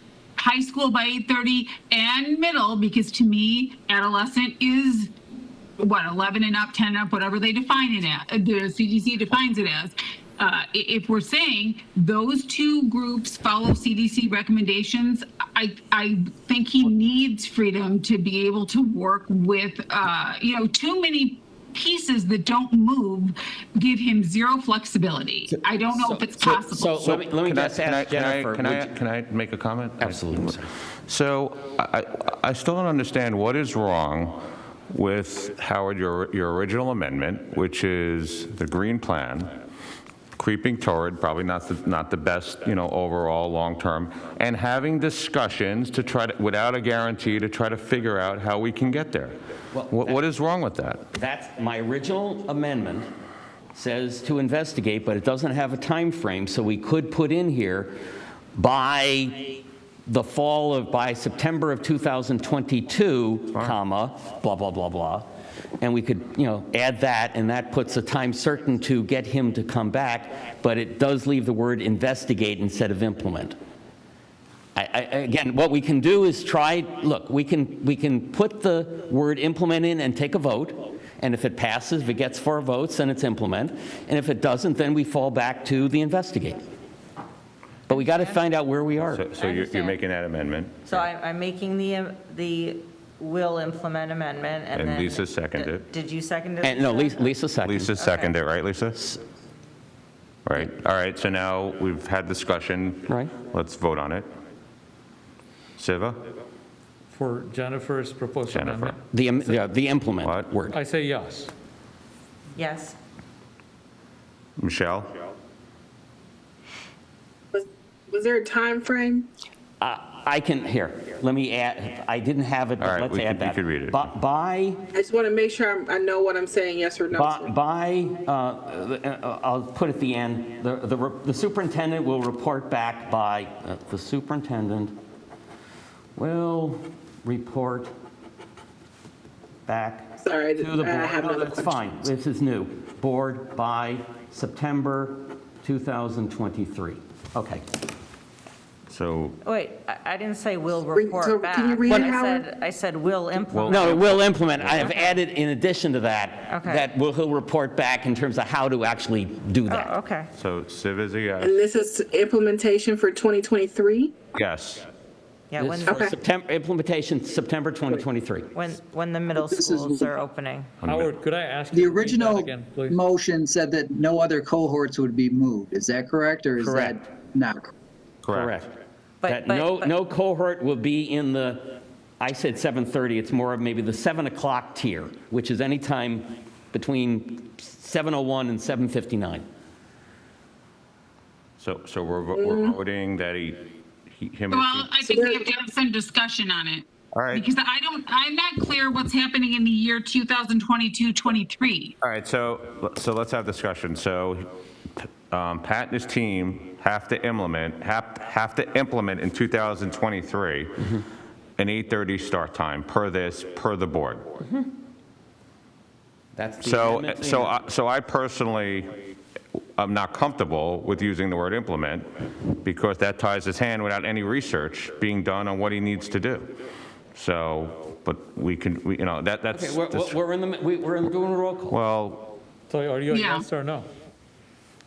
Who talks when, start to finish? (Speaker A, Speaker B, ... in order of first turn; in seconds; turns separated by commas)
Speaker A: 0.4-5.1, Speaker A: 5.8-27.0, Speaker B: 25.5-28.9, Speaker C: 26.4-39.5, Speaker B: 30.0-30.7, Speaker C: 40.4-51.1, Speaker B: 49.7-50.2, Speaker B: 51.1-53.1, Speaker B: 53.7-58.0, Speaker B: 58.5-65.3, Speaker C: 63.5-63.8, Speaker B: 65.8-73.6, Speaker B: 74.8-86.7, Speaker B: 87.9-89.2, Speaker D: 87.9-88.4, Speaker C: 89.0-91.1, Speaker D: 89.4-90.0, Speaker D: 90.9-97.4, Speaker C: 94.7-95.9, Speaker B: 96.6-97.9, Speaker C: 97.6-99.2, Speaker D: 98.0-98.4, Speaker C: 100.5-104.3, Speaker B: 103.1-103.3, Speaker C: 105.8-106.2, Speaker E: 107.1-109.0, Speaker C: 108.5-109.0, Speaker B: 109.1-110.8, Speaker C: 110.2-110.6, Speaker E: 110.7-111.5, Speaker D: 112.5-113.0, Speaker C: 114.6-115.1, Speaker F: 117.5-119.3, Speaker B: 119.8-124.8, Speaker C: 122.8-124.1, Speaker F: 124.9-127.5, Speaker B: 127.1-135.0, Speaker B: 136.2-137.9, Speaker B: 139.7-147.7, Speaker F: 140.2-141.7, Speaker C: 148.9-149.4, Speaker D: 149.4-155.2, Speaker F: 150.9-152.5, Speaker B: 151.9-152.1, Speaker C: 153.5-154.9, Speaker B: 153.7-159.9, Speaker D: 156.5-156.9, Speaker D: 159.7-160.3, Speaker C: 160.3-161.6, Speaker F: 161.4-164.2, Speaker C: 164.3-164.9, Speaker D: 165.5-166.0, Speaker B: 165.6-168.5, Speaker F: 165.9-166.2, Speaker D: 168.5-170.8, Speaker G: 169.3-170.1, Speaker C: 170.8-171.2, Speaker E: 170.8-173.0, Speaker G: 171.7-177.7, Speaker B: 176.6-177.0, Speaker C: 178.2-178.6, Speaker B: 178.3-178.8, Speaker D: 179.2-179.9, Speaker B: 179.3-189.4, Speaker C: 191.6-194.9, Speaker F: 192.3-192.8, Speaker A: 194.5-201.9, Speaker F: 195.1-195.4, Speaker C: 197.1-197.5, Speaker C: 202.0-210.9, Speaker C: 211.6-214.4, Speaker B: 216.3-217.5, Speaker C: 216.6-219.0, Speaker C: 219.8-222.1, Speaker C: 222.6-226.5, Speaker C: 227.2-230.2, Speaker B: 229.5-231.8, Speaker C: 231.7-232.3, Speaker E: 232.7-233.9, Speaker A: 233.1-233.5